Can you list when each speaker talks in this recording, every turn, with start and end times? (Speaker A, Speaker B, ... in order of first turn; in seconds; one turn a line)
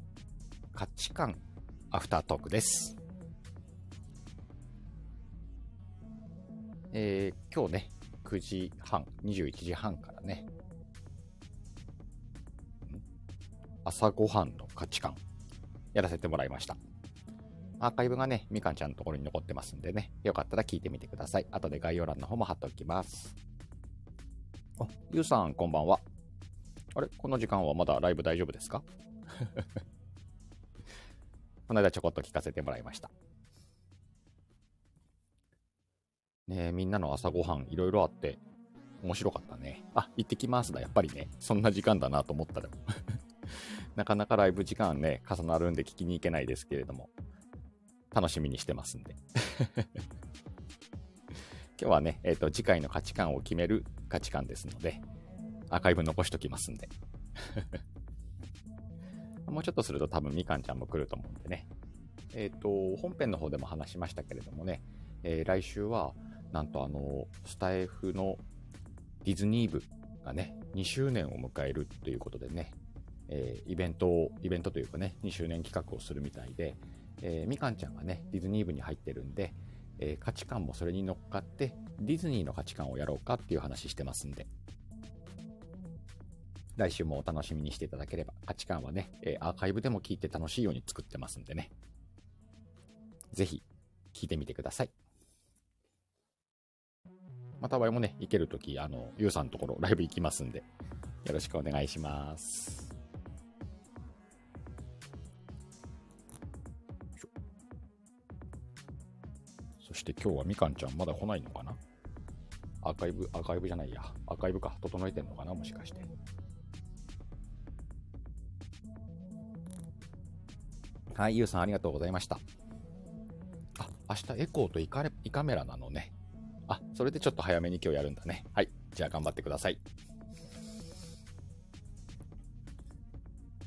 Speaker A: 0.7-3.0
Speaker A: 6.9-10.5
Speaker A: 13.8-15.2
Speaker A: 15.9-16.8
Speaker A: 17.8-23.4
Speaker A: 24.8-26.0
Speaker A: 26.9-29.8
Speaker A: 31.7-33.1
Speaker A: 36.5-38.4
Speaker A: 39.0-47.1
Speaker A: 48.1-50.0
Speaker A: 51.8-55.0
Speaker A: 55.7-57.8
Speaker A: 59.5-61.7
Speaker A: 62.3-68.4
Speaker A: 69.2-72.8
Speaker A: 73.3-84.5
Speaker A: 86.8-91.7
Speaker A: 93.3-94.9
Speaker A: 97.6-100.7
Speaker A: 101.2-102.9
Speaker A: 109.8-111.8
Speaker A: 112.8-116.1
Speaker A: 121.1-122.4
Speaker A: 123.8-126.1
Speaker A: 126.7-129.8